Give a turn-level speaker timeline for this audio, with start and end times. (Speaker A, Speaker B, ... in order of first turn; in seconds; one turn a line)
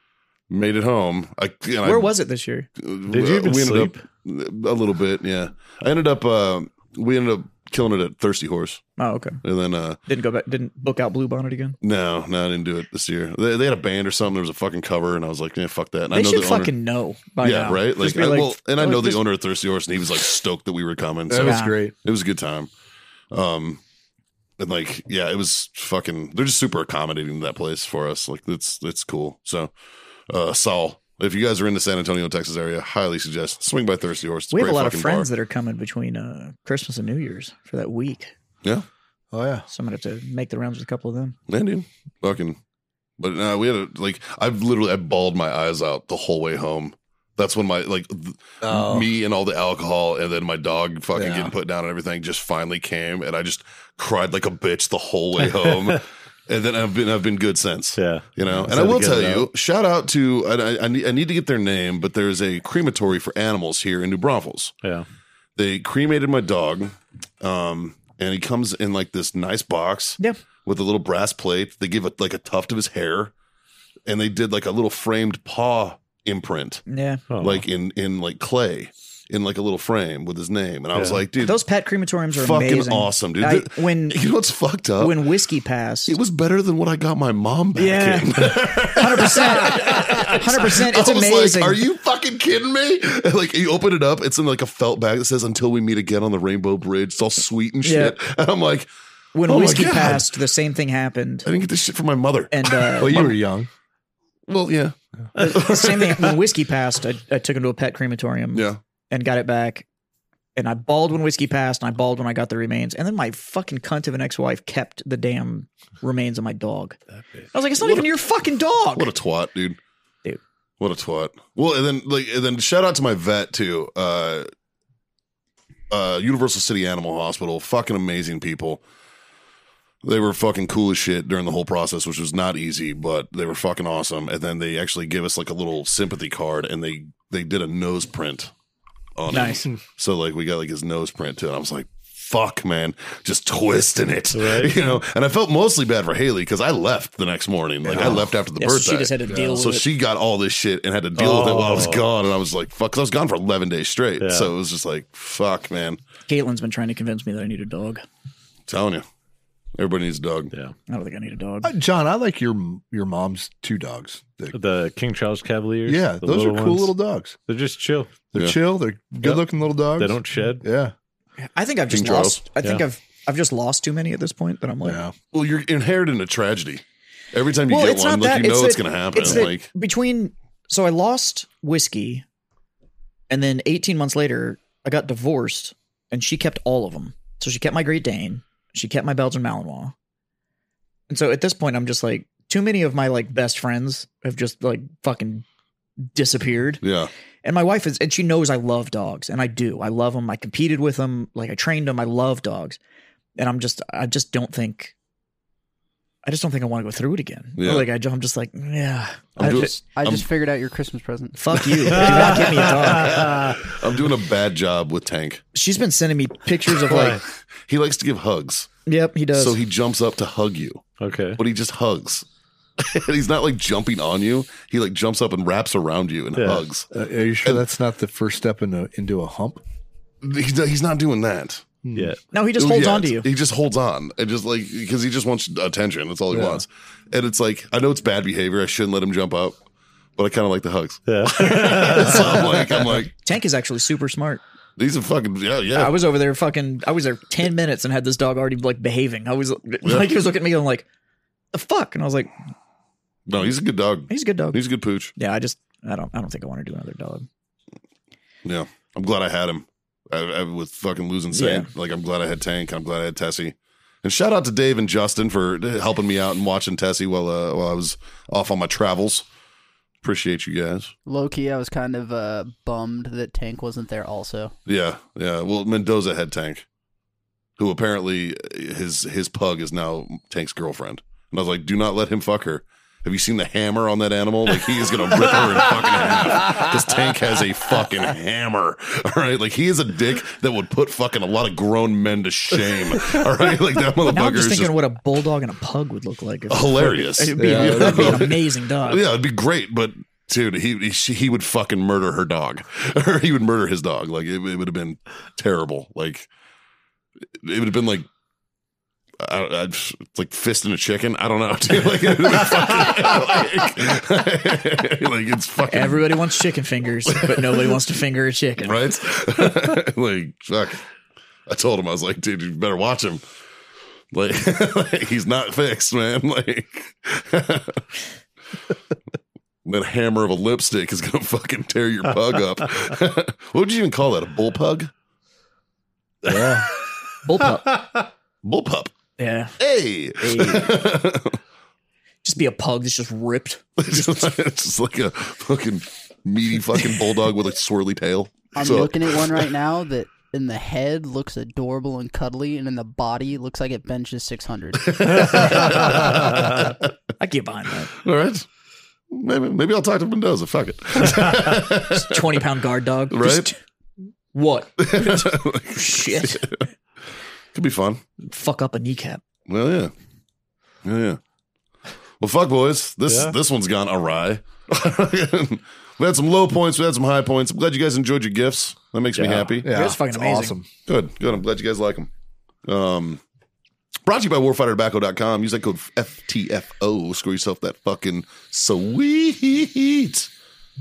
Speaker A: 0.5-2.1
Speaker B: 1.8-2.7
Speaker A: 2.8-8.8
Speaker C: 3.1-4.0
Speaker B: 9.0-9.4
Speaker A: 9.4-10.0
Speaker B: 10.1-11.8
Speaker A: 11.8-16.7
Speaker B: 16.1-19.2
Speaker A: 17.4-22.7
Speaker D: 21.3-21.9
Speaker B: 21.4-21.7
Speaker A: 23.3-23.8
Speaker A: 24.6-29.7
Speaker A: 30.3-35.3
Speaker B: 34.5-38.3
Speaker D: 39.3-39.6
Speaker B: 39.7-41.4
Speaker A: 41.5-42.6
Speaker A: 43.2-64.7
Speaker D: 48.6-49.1
Speaker D: 51.1-51.5
Speaker C: 58.0-59.5
Speaker A: 65.5-73.3
Speaker A: 74.1-76.8
Speaker B: 76.9-77.2
Speaker C: 77.3-77.7
Speaker A: 77.4-81.6
Speaker C: 80.9-81.2
Speaker B: 81.4-84.2
Speaker A: 82.3-85.2
Speaker B: 85.0-86.2
Speaker A: 86.1-98.9
Speaker B: 87.8-91.8
Speaker B: 97.8-98.2
Speaker B: 99.3-101.5
Speaker A: 99.5-100.3
Speaker A: 101.4-103.3
Speaker B: 102.5-103.3
Speaker D: 103.0-103.7
Speaker A: 104.5-106.3
Speaker B: 105.3-109.9
Speaker A: 108.5-108.8
Speaker B: 110.5-117.0
Speaker B: 117.5-119.1
Speaker A: 117.8-118.0
Speaker A: 118.9-119.8
Speaker A: 120.8-124.5
Speaker A: 125.9-128.8
Speaker A: 130.0-138.5
Speaker A: 139.2-156.0
Speaker B: 139.3-139.7
Speaker C: 144.3-144.8
Speaker D: 147.9-148.2
Speaker C: 147.9-148.2
Speaker B: 148.6-149.8
Speaker D: 149.3-149.6
Speaker C: 151.2-152.1
Speaker C: 154.2-154.5
Speaker B: 156.3-158.0
Speaker A: 158.7-159.0
Speaker A: 159.8-160.5
Speaker B: 160.9-161.7
Speaker D: 161.6-164.6
Speaker C: 164.5-166.9
Speaker D: 165.8-167.4
Speaker C: 167.5-168.2
Speaker D: 168.3-170.9
Speaker C: 170.0-170.7
Speaker B: 171.4-175.0
Speaker A: 171.9-172.4
Speaker D: 174.8-175.1
Speaker A: 175.3-179.7
Speaker B: 177.7-182.2
Speaker B: 183.3-189.9
Speaker B: 191.1-195.4
Speaker B: 196.1-196.8
Speaker A: 196.8-197.1
Speaker B: 197.4-202.8
Speaker B: 203.4-204.9
Speaker B: 206.2-209.8
Speaker A: 207.6-207.9
Speaker A: 209.4-210.2
Speaker E: 209.8-212.0
Speaker B: 211.3-213.3
Speaker C: 211.9-213.6
Speaker A: 211.9-215.4
Speaker B: 215.5-217.2
Speaker C: 216.9-217.2
Speaker A: 217.7-218.7
Speaker B: 218.8-219.6
Speaker A: 219.3-220.8
Speaker C: 221.0-221.4
Speaker A: 221.4-222.2
Speaker A: 222.8-226.9
Speaker C: 226.3-226.6
Speaker D: 226.9-229.6
Speaker A: 230.2-231.7
Speaker D: 231.8-232.1
Speaker B: 232.3-233.3
Speaker A: 232.6-239.6
Speaker D: 236.3-236.6
Speaker A: 240.2-243.1
Speaker C: 241.1-242.9
Speaker B: 243.2-244.4
Speaker A: 244.8-246.0
Speaker B: 245.7-250.8
Speaker A: 249.8-250.2
Speaker B: 251.5-252.3
Speaker A: 253.3-255.1
Speaker B: 254.1-254.6
Speaker B: 255.2-257.3
Speaker A: 258.4-269.2
Speaker B: 261.3-261.7
Speaker A: 270.0-270.9
Speaker E: 271.1-274.5
Speaker A: 274.6-276.6
Speaker A: 277.6-294.7
Speaker B: 294.1-299.0
Speaker A: 296.5-306.3
Speaker D: 297.4-298.3
Speaker A: 307.4-308.1
Speaker A: 309.2-316.3
Speaker B: 315.7-318.8
Speaker A: 317.1-317.6
Speaker A: 318.6-320.8
Speaker A: 321.5-323.2
Speaker A: 324.1-327.8
Speaker A: 329.6-334.9
Speaker D: 336.2-336.7
Speaker B: 337.2-337.8
Speaker A: 338.4-338.9
Speaker B: 339.2-339.6
Speaker A: 339.6-341.4
Speaker B: 340.2-340.8
Speaker B: 342.2-344.3
Speaker A: 343.8-349.4
Speaker E: 348.5-356.0
Speaker A: 354.9-356.9
Speaker C: 356.1-356.5
Speaker B: 357.2-357.9
Speaker A: 358.0-358.4
Speaker A: 359.1-362.2
Speaker B: 361.8-363.6
Speaker A: 363.1-363.5
Speaker B: 364.3-366.6
Speaker A: 364.8-366.6
Speaker A: 367.5-368.0
Speaker B: 368.2-369.2
Speaker A: 369.5-369.9
Speaker A: 370.8-371.2
Speaker A: 372.2-379.7
Speaker C: 373.1-373.3
Speaker C: 379.1-379.6
Speaker D: 379.6-380.7
Speaker B: 379.6-380.6
Speaker A: 380.9-382.1
Speaker A: 382.6-383.2
Speaker A: 384.1-390.3